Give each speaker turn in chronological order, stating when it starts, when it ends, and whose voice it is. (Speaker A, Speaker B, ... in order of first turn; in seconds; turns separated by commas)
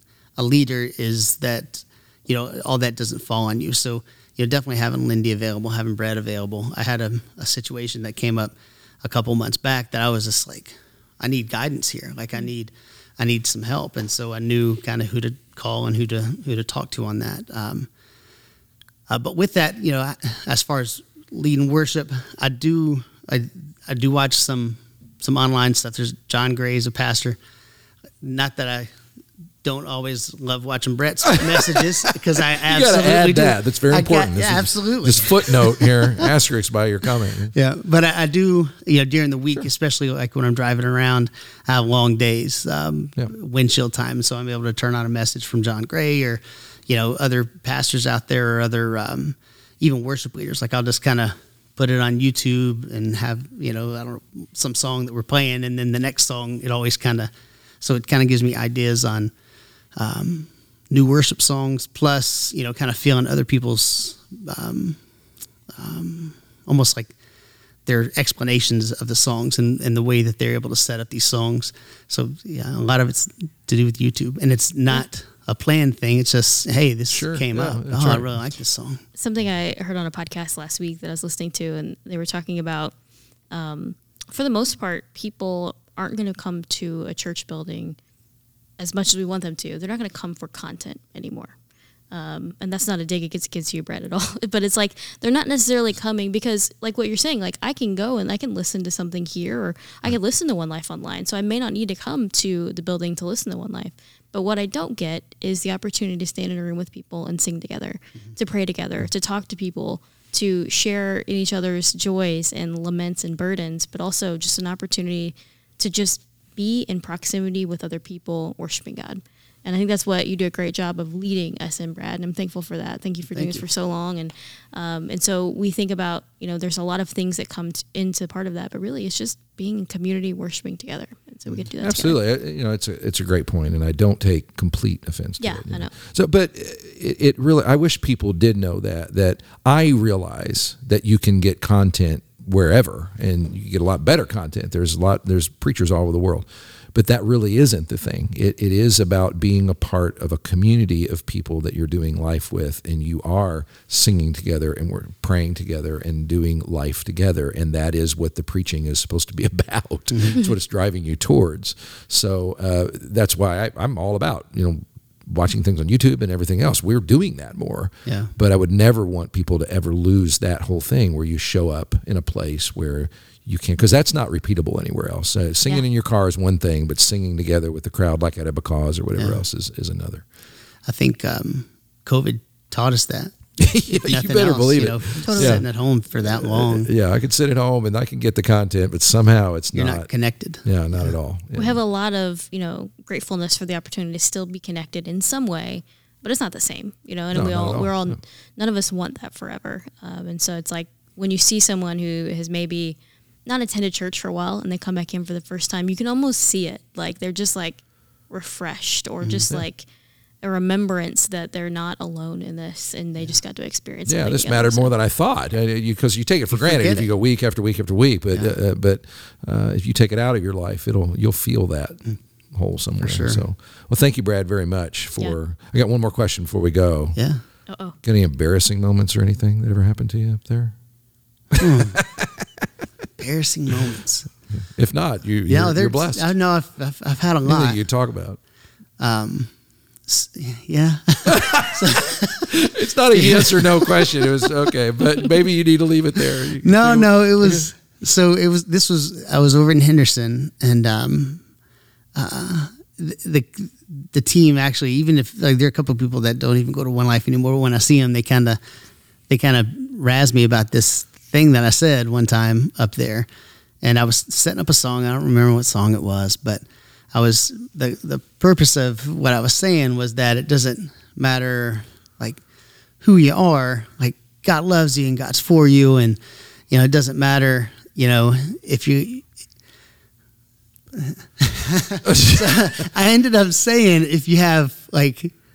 Speaker A: 0.4-17.9, Speaker A: 19.1-27.4, Speaker A: 28.2-28.9, Speaker A: 29.6-36.3, Speaker B: 31.4-37.5, Speaker A: 37.5-59.3, Speaker A: 60.0-65.0, Speaker A: 65.8-67.1, Speaker A: 67.9-79.0, Speaker B: 77.1-78.3, Speaker C: 79.2-82.9, Speaker C: 83.5-88.0, Speaker C: 88.8-91.5, Speaker C: 92.1-132.2, Speaker A: 123.3-123.6, Speaker B: 131.8-180.2, Speaker C: 135.4-135.9, Speaker A: 160.1-160.4, Speaker A: 168.1-168.3, Speaker A: 179.2-179.4, Speaker A: 180.9-183.4, Speaker B: 183.6-185.7, Speaker A: 183.9-186.9, Speaker C: 185.3-185.6, Speaker B: 186.3-190.1, Speaker A: 189.7-191.2, Speaker B: 190.6-191.8, Speaker C: 191.6-209.9, Speaker B: 197.3-198.2, Speaker C: 210.4-214.9, Speaker B: 214.1-222.0, Speaker A: 216.5-217.1, Speaker B: 222.5-227.2, Speaker A: 223.0-223.4, Speaker A: 227.2-227.4, Speaker C: 227.7-228.0, Speaker B: 228.0-230.8, Speaker B: 231.5-232.7, Speaker A: 231.6-232.0, Speaker A: 233.2-234.3, Speaker B: 234.5-236.3, Speaker A: 235.5-237.8, Speaker B: 237.5-238.4, Speaker A: 239.0-239.5, Speaker A: 240.1-244.7, Speaker B: 241.3-247.7, Speaker A: 246.5-251.4, Speaker A: 252.2-258.6, Speaker A: 259.3-263.3, Speaker A: 263.8-272.4, Speaker A: 273.0-276.2, Speaker A: 276.7-279.2, Speaker A: 280.9-285.3, Speaker B: 282.1-282.6